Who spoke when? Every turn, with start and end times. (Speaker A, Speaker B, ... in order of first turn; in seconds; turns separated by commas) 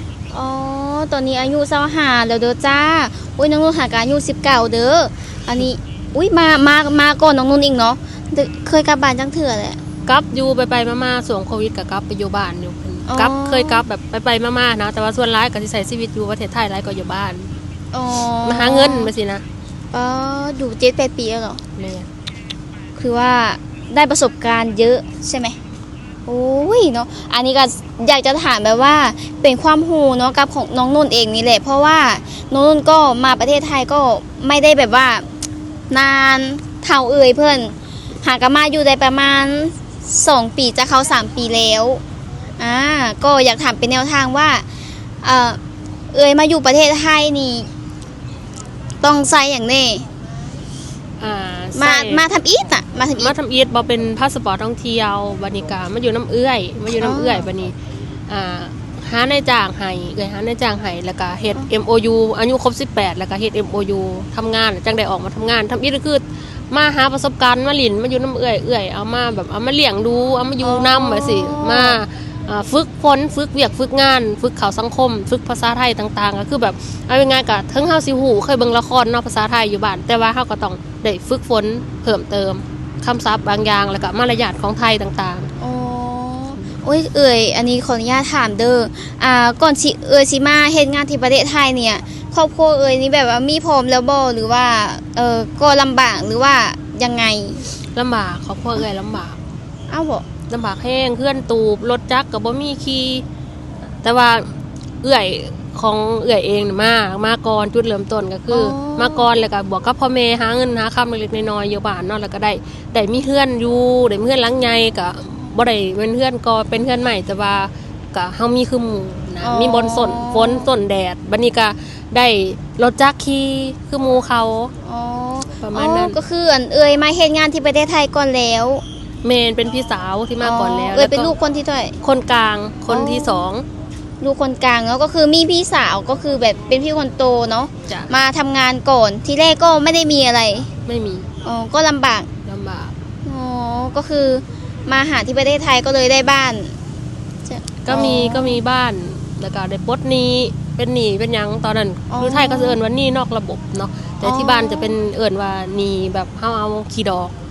Speaker A: 0.3-9.8, Speaker B: 10.1-17.5, Speaker A: 13.1-13.8, Speaker A: 17.9-19.1, Speaker B: 18.4-19.4, Speaker A: 19.9-21.6, Speaker B: 21.8-22.1, Speaker A: 23.0-25.6, Speaker A: 26.3-35.3, Speaker A: 35.9-42.0, Speaker A: 42.6-44.6, Speaker A: 45.2-45.6, Speaker A: 46.1-47.7, Speaker A: 49.0-50.1, Speaker B: 51.2-52.2, Speaker A: 51.8-53.3, Speaker B: 53.2-57.8, Speaker A: 57.0-57.5, Speaker B: 58.3-85.5, Speaker A: 70.6-72.0, Speaker A: 85.6-97.7, Speaker B: 98.0-99.4, Speaker A: 99.9-100.3, Speaker B: 100.5-103.2, Speaker B: 104.0-104.4, Speaker B: 105.0-124.7, Speaker A: 108.5-109.3, Speaker A: 119.4-120.7, Speaker A: 124.8-128.8, Speaker B: 125.6-126.2, Speaker B: 129.2-131.3, Speaker A: 130.4-132.0, Speaker B: 132.0-133.7, Speaker A: 132.9-133.4, Speaker A: 134.2-140.7, Speaker B: 137.9-138.1, Speaker B: 140.9-141.3, Speaker A: 141.4-142.3, Speaker B: 142.4-142.9, Speaker A: 143.2-146.8, Speaker A: 147.4-148.6, Speaker B: 147.8-157.3, Speaker A: 152.1-152.8, Speaker A: 154.2-154.9